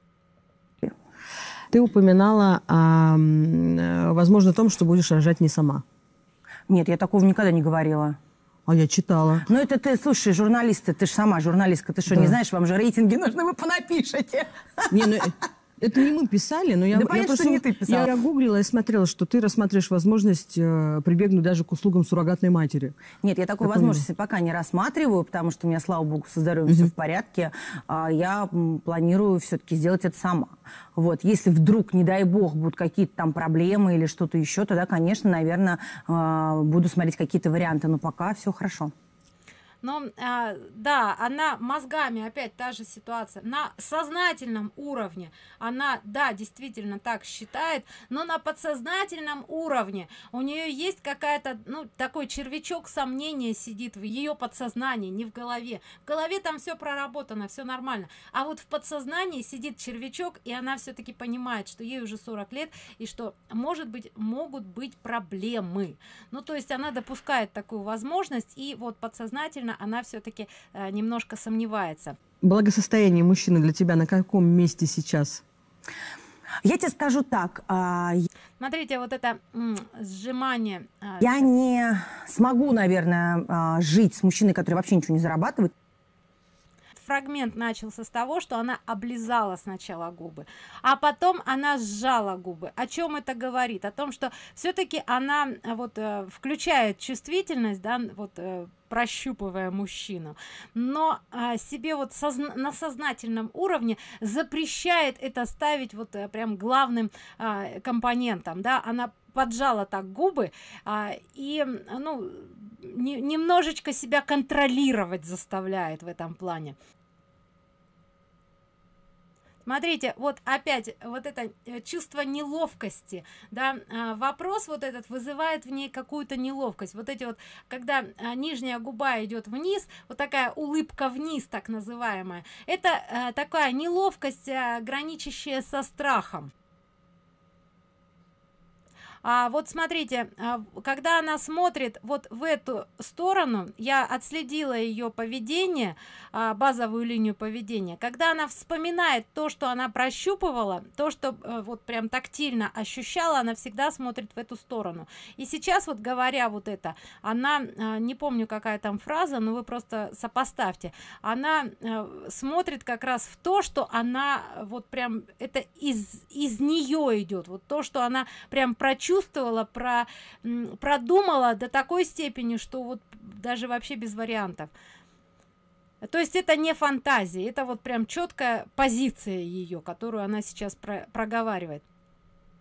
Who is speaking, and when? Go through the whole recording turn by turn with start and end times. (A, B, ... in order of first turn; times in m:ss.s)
0:01.7-0:05.8 A
0:06.7-0:08.2 B
0:08.7-0:09.5 A
0:09.4-0:15.2 B
0:12.1-0:12.4 A
0:14.9-0:23.0 A
0:16.9-0:18.1 B
0:23.2-0:38.9 B
0:23.6-0:24.0 A
0:39.8-1:12.2 C
1:12.4-1:15.4 A
1:16.6-1:18.3 B
1:18.6-1:21.4 C
1:21.2-1:25.7 B
1:27.0-1:56.8 C
1:59.6-2:16.5 C
2:19.2-2:54.7 C
2:56.0-3:01.8 C